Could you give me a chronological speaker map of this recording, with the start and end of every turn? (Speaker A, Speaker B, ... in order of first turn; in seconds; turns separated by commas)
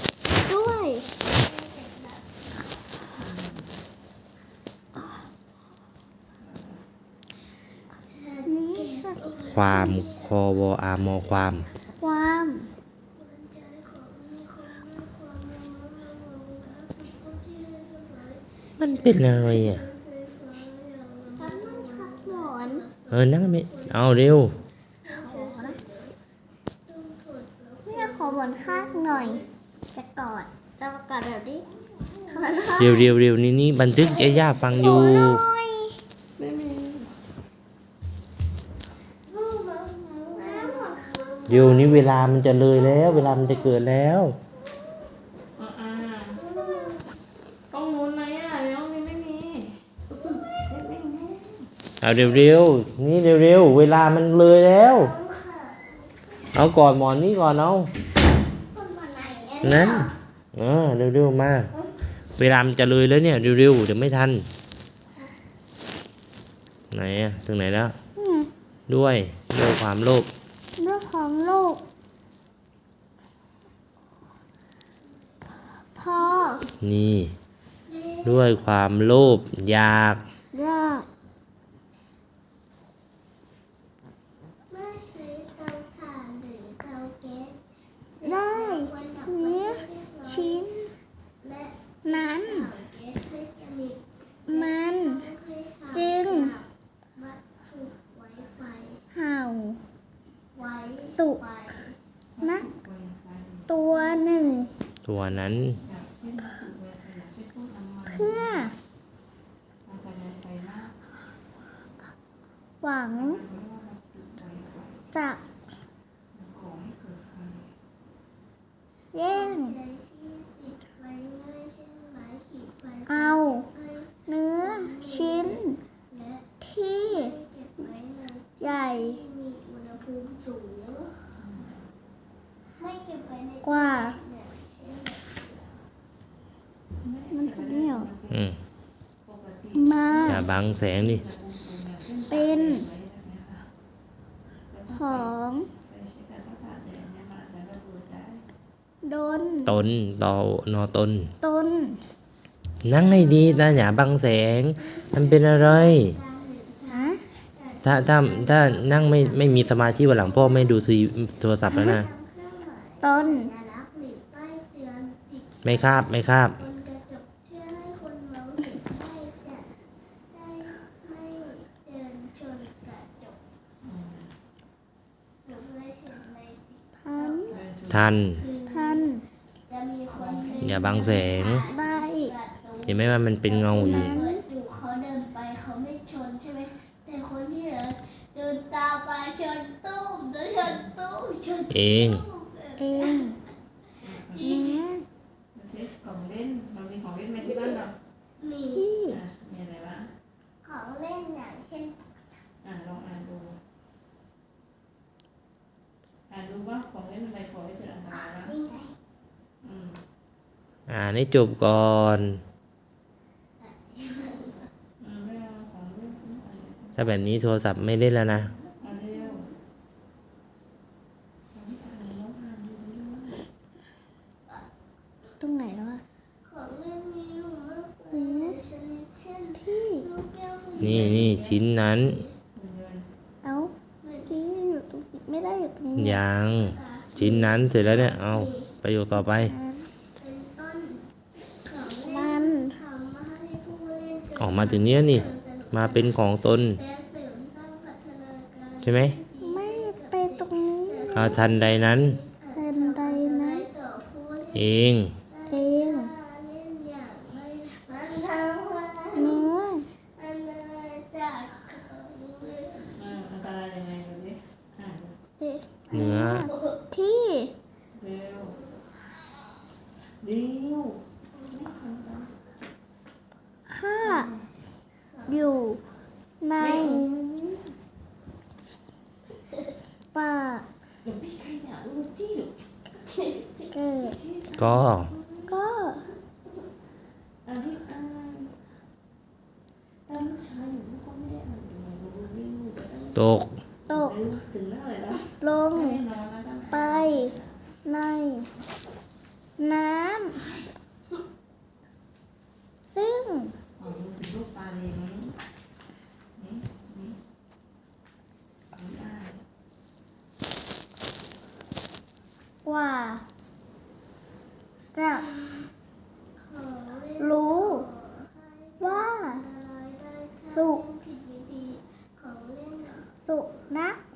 Speaker A: 0.3-1.1, Speaker B: 1.0-2.4, Speaker C: 3.1-3.8, Speaker C: 6.3-6.8, Speaker B: 8.0-10.4, Speaker A: 8.5-9.3, Speaker D: 9.5-11.7, Speaker A: 12.0-12.7, Speaker B: 13.1-26.1, Speaker D: 18.8-19.8, Speaker A: 21.4-22.8, Speaker D: 23.1-24.5, Speaker A: 25.1-25.8, Speaker B: 26.9-29.5, Speaker A: 27.8-29.4, Speaker A: 29.9-31.6, Speaker B: 31.8-32.9, Speaker A: 32.3-33.1, Speaker D: 32.8-35.4, Speaker B: 34.0-35.2, Speaker A: 34.7-36.0, Speaker C: 36.4-37.2, Speaker B: 39.3-43.7, Speaker A: 40.3-41.3, Speaker D: 41.5-44.4, Speaker C: 45.5-46.4, Speaker B: 46.3-47.1, Speaker C: 47.7-49.8, Speaker B: 50.1-50.5, Speaker C: 50.5-51.7, Speaker D: 52.0-55.1, Speaker B: 55.0-56.5, Speaker D: 56.5-57.9, Speaker B: 58.7-60.1, Speaker A: 59.6-60.1, Speaker D: 59.6-61.7, Speaker D: 62.4-64.5, Speaker D: 66.9-68.0, Speaker A: 68.2-68.5, Speaker D: 68.9-70.3, Speaker A: 70.8-71.8, Speaker A: 75.9-76.6, Speaker B: 76.2-76.7, Speaker D: 76.8-77.3, Speaker B: 77.9-78.5, Speaker D: 78.2-80.2, Speaker A: 80.5-81.1, Speaker B: 84.7-87.6, Speaker B: 88.1-90.7, Speaker A: 88.2-90.9, Speaker B: 91.4-99.0, Speaker A: 92.0-92.7, Speaker A: 94.5-95.2, Speaker A: 95.9-96.5, Speaker A: 99.1-99.8, Speaker B: 100.5-102.0, Speaker A: 101.1-101.4, Speaker C: 102.3-103.7, Speaker A: 102.4-102.7, Speaker A: 103.7-104.7, Speaker B: 103.8-104.7, Speaker D: 105.0-105.8, Speaker C: 105.7-108.7, Speaker A: 108.0-108.7, Speaker C: 109.8-110.9, Speaker A: 112.8-113.4, Speaker C: 113.1-115.1, Speaker A: 115.1-115.4, Speaker C: 116.3-117.7, Speaker A: 119.1-119.8, Speaker B: 119.2-126.5, Speaker A: 123.1-123.7, Speaker A: 124.3-125.8, Speaker A: 126.6-127.3, Speaker B: 127.0-131.2, Speaker A: 128.6-129.2, Speaker C: 131.4-131.9, Speaker B: 132.8-135.9, Speaker A: 133.6-134.2, Speaker C: 137.0-138.5, Speaker A: 137.3-138.1, Speaker D: 138.3-138.6, Speaker C: 139.2-143.7, Speaker A: 139.7-140.5, Speaker D: 140.3-141.2, Speaker A: 142.3-142.8, Speaker C: 144.7-148.4, Speaker A: 144.9-145.7, Speaker A: 149.0-149.8, Speaker D: 149.7-151.3, Speaker A: 151.4-152.0, Speaker D: 152.8-156.1, Speaker B: 152.9-153.7, Speaker B: 154.8-160.9, Speaker A: 156.9-157.2, Speaker D: 157.8-162.1, Speaker B: 161.7-169.7, Speaker A: 163.0-163.5, Speaker D: 165.6-166.6, Speaker B: 170.3-173.4, Speaker C: 173.8-174.3, Speaker B: 175.4-177.7, Speaker A: 177.0-177.5, Speaker C: 177.5-178.2, Speaker D: 177.9-178.4, Speaker B: 178.3-193.4, Speaker A: 178.7-179.2, Speaker C: 180.2-181.2, Speaker D: 180.6-181.6, Speaker A: 181.7-182.3, Speaker D: 182.8-184.2, Speaker A: 183.7-184.4, Speaker D: 191.7-192.2, Speaker A: 192.8-193.4, Speaker C: 194.0-194.6, Speaker B: 194.0-194.8, Speaker A: 194.3-195.0, Speaker C: 195.5-197.9, Speaker B: 198.4-198.9, Speaker A: 198.7-199.2, Speaker C: 199.1-200.1, Speaker B: 200.6-202.0, Speaker C: 202.6-203.6, Speaker C: 206.3-208.6, Speaker B: 208.1-209.0, Speaker C: 209.6-210.0, Speaker D: 210.9-212.4, Speaker B: 213.6-214.7, Speaker C: 215.0-217.1, Speaker D: 216.9-218.5, Speaker C: 218.8-219.5, Speaker C: 221.5-223.4, Speaker A: 225.4-226.0, Speaker B: 226.4-232.3, Speaker A: 228.1-228.6, Speaker A: 229.6-230.1, Speaker C: 230.8-231.6, Speaker D: 230.8-232.2, Speaker C: 232.5-233.1, Speaker A: 233.4-233.7, Speaker B: 234.0-234.3, Speaker A: 234.3-236.2, Speaker D: 236.0-239.5, Speaker B: 236.6-238.7, Speaker A: 239.3-239.9, Speaker B: 240.2-259.5, Speaker A: 242.1-242.8, Speaker D: 244.4-246.8, Speaker D: 248.8-249.2, Speaker A: 249.4-251.3, Speaker D: 251.1-252.2, Speaker A: 252.5-253.7, Speaker D: 254.5-255.1, Speaker A: 255.5-256.1, Speaker A: 259.1-259.9, Speaker B: 260.0-263.1, Speaker C: 262.9-265.2, Speaker A: 265.4-267.5, Speaker D: 265.9-266.5, Speaker B: 265.9-266.8, Speaker C: 267.9-268.6, Speaker B: 268.5-268.8, Speaker C: 270.2-272.3, Speaker A: 273.7-274.3, Speaker C: 274.0-274.5, Speaker B: 275.1-275.5, Speaker A: 275.3-275.8, Speaker A: 276.4-277.3, Speaker C: 276.6-277.6, Speaker A: 280.1-280.7, Speaker C: 281.0-283.0, Speaker A: 283.7-284.2, Speaker C: 284.0-285.5, Speaker D: 284.6-285.1, Speaker A: 285.5-286.1, Speaker C: 287.4-288.5, Speaker C: 290.1-293.3, Speaker D: 293.1-293.6, Speaker C: 293.8-297.7, Speaker A: 293.9-294.1, Speaker A: 295.4-296.0, Speaker A: 296.7-297.3, Speaker A: 297.8-298.5, Speaker A: 299.6-300.4, Speaker A: 302.9-303.5, Speaker C: 303.8-305.4, Speaker C: 306.4-307.2, Speaker C: 308.7-309.4, Speaker A: 312.6-313.2, Speaker A: 314.9-315.3, Speaker B: 315.1-315.7, Speaker B: 316.4-323.1, Speaker A: 317.2-317.9, Speaker A: 318.8-319.4, Speaker A: 320.5-320.8, Speaker A: 323.2-324.0